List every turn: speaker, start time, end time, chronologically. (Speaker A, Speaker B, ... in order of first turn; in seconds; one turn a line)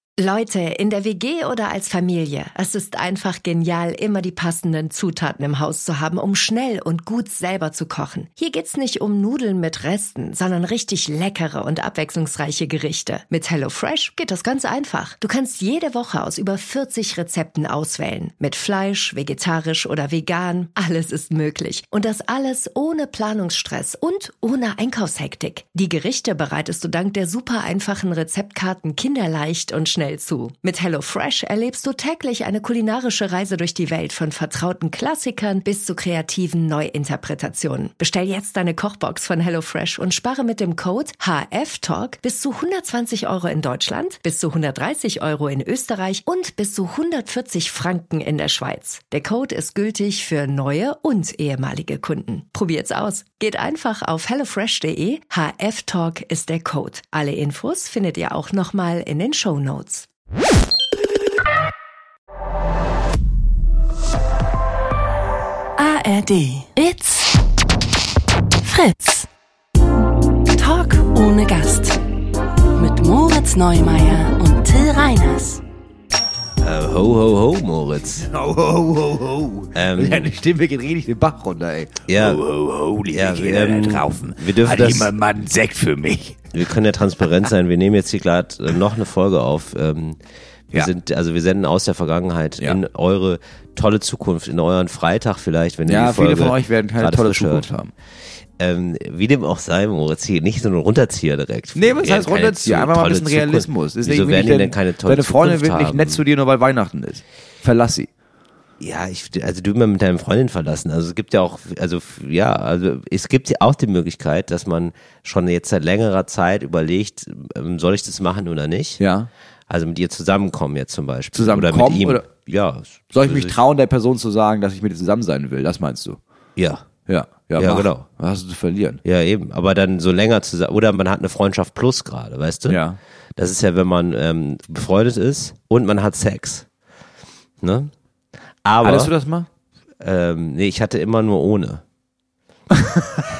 Speaker A: 0.2-60.1
Speaker B: 65.8-67.3
Speaker B: 68.6-69.3
Speaker B: 70.5-72.0
Speaker B: 72.7-75.6
Speaker C: 76.6-78.3
Speaker D: 78.3-86.5
Speaker C: 79.7-80.3
Speaker C: 82.1-82.4
Speaker C: 83.1-85.1
Speaker C: 86.5-90.2
Speaker C: 90.7-97.7
Speaker D: 95.8-97.9
Speaker C: 98.6-106.2
Speaker D: 101.8-108.1
Speaker C: 108.8-119.0
Speaker D: 119.0-119.3
Speaker C: 119.7-123.6
Speaker D: 121.3-122.3
Speaker D: 123.1-126.2
Speaker C: 126.6-126.8
Speaker D: 127.1-129.0
Speaker C: 127.6-128.0
Speaker C: 129.0-132.8
Speaker D: 132.7-133.0
Speaker C: 133.3-136.7
Speaker C: 137.6-137.9
Speaker C: 138.6-139.1
Speaker D: 138.8-139.5
Speaker C: 140.0-141.8
Speaker D: 142.7-143.2